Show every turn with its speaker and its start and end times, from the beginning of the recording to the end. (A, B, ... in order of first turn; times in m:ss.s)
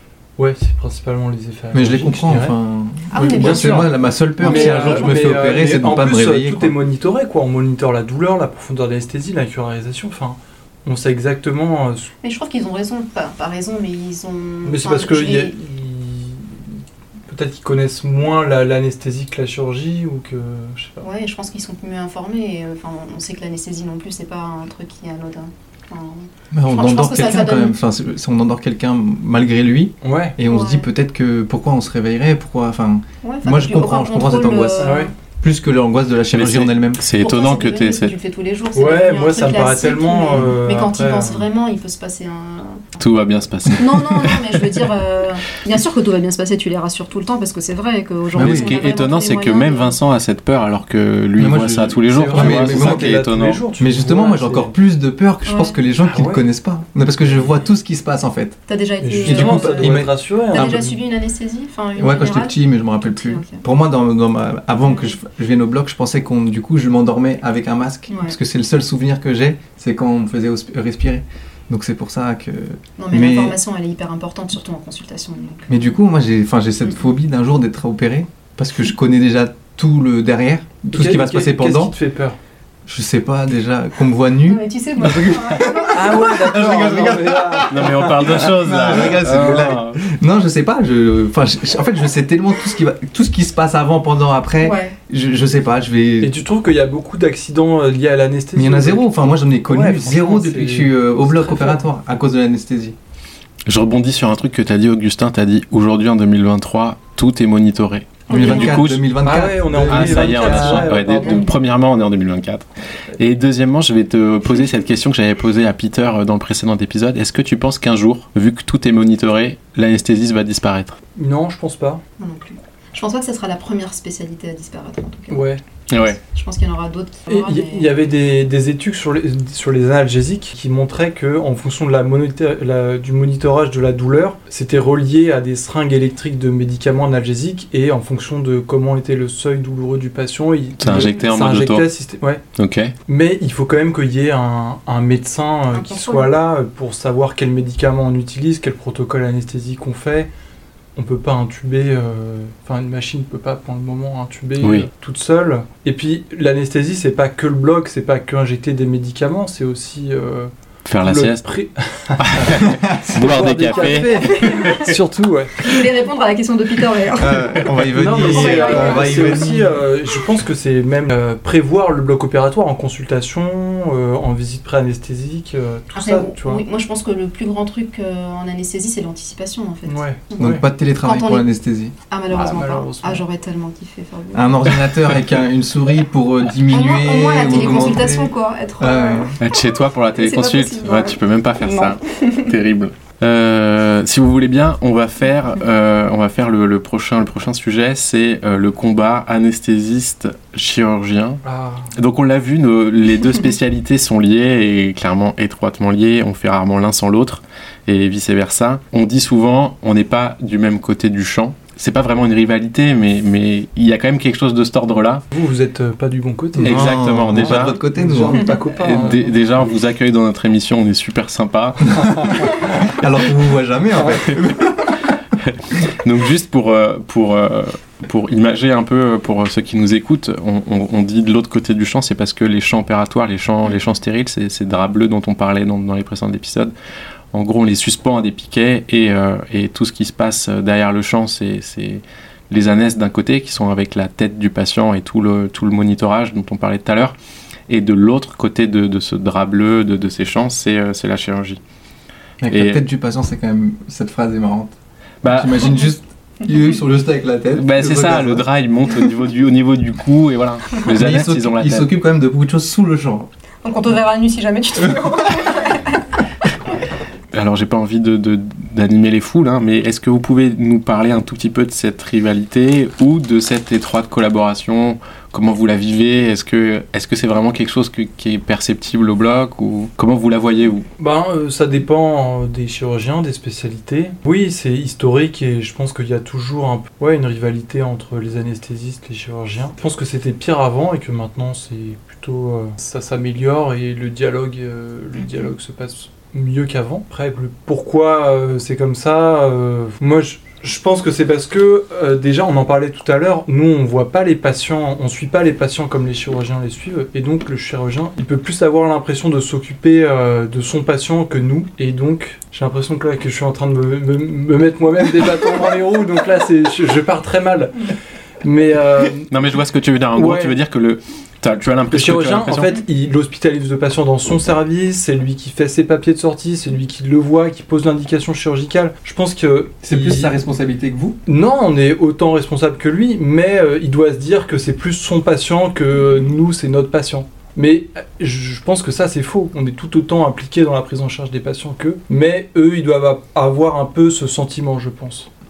0:00.4-0:02.6 A
0:01.7-0:06.8 B
0:03.1-0:05.2 C
0:03.2-0:12.1 A
0:12.2-0:15.6 C
0:14.6-0:21.0 A
0:21.0-0:27.8 C
0:26.5-0:37.0 B
0:30.0-0:30.4 A
0:30.4-0:30.9 C
0:33.2-0:35.1 C
0:34.8-0:35.1 A
0:36.3-0:38.1 D
0:37.1-0:42.8 C
0:38.7-0:41.4 A
0:43.0-0:44.5 D
0:43.8-0:49.9 C
0:48.3-0:48.8 B
0:48.3-0:53.6 D
0:51.4-0:53.2 B
0:52.1-0:54.7 A
0:53.8-0:58.6 B
0:55.4-0:55.8 C
0:56.0-0:56.4 A
0:58.7-1:03.6 C
0:59.0-1:00.9 A
0:59.2-1:00.9 B
1:02.0-1:13.6 B
1:04.9-1:05.2 C
1:08.1-1:08.3 C
1:13.0-1:15.9 C
1:15.7-1:21.9 B
1:20.9-1:22.4 A
1:22.8-1:36.3 B
1:24.4-1:26.4 C
1:25.9-1:28.4 A
1:27.7-1:30.0 D
1:34.6-1:35.0 C
1:36.2-1:41.8 A
1:38.5-1:43.0 B
1:43.6-1:49.0 D
1:48.3-1:48.8 C
1:48.3-1:51.0 B
1:49.2-1:51.5 A
1:49.7-2:01.0 D
1:51.2-1:51.5 C
2:01.1-2:02.0 A
2:02.2-2:05.5 C
2:05.3-2:05.6 A
2:05.9-2:06.2 D
2:06.0-2:08.0 C
2:07.3-2:22.4 A
2:20.8-2:21.9 D
2:22.6-2:22.9 D
2:23.1-2:30.3 A
2:25.7-2:26.3 C
2:31.0-2:40.5 A
2:34.6-2:34.9 D
2:40.8-2:41.4 D
2:41.0-2:45.8 A
2:42.2-2:44.9 D
2:43.9-2:44.9 C
2:45.6-2:49.5 C
2:47.1-2:49.8 B
2:47.9-2:56.6 A
2:55.9-3:01.5 C
2:59.8-3:00.6 A
3:00.4-3:01.9 B
3:02.1-3:04.8 C
3:02.3-3:03.2 A
3:04.3-3:09.4 B
3:06.7-3:09.6 C
3:09.4-3:21.4 D
3:10.2-3:12.5 C
3:21.4-3:21.9 A
3:21.9-3:35.2 D
3:35.3-3:39.4 A
3:36.6-3:38.6 B
3:36.6-3:37.8 D
3:38.7-3:42.3 D
3:42.0-3:45.0 B
3:45.4-3:56.7 D
3:57.3-4:07.1 D
4:07.7-4:11.6 D
4:12.4-4:14.7 B
4:12.5-4:12.8 D
4:15.2-4:15.8 D
4:15.3-4:18.4 B
4:17.5-4:21.9 D
4:20.9-4:23.3 B
4:23.6-4:26.0 C
4:27.3-4:40.9 D
4:41.0-5:19.3 A
5:19.3-5:22.8 D
5:20.1-5:20.6 A
5:21.9-5:30.3 A
5:29.8-5:31.2 B
5:31.2-5:45.3 A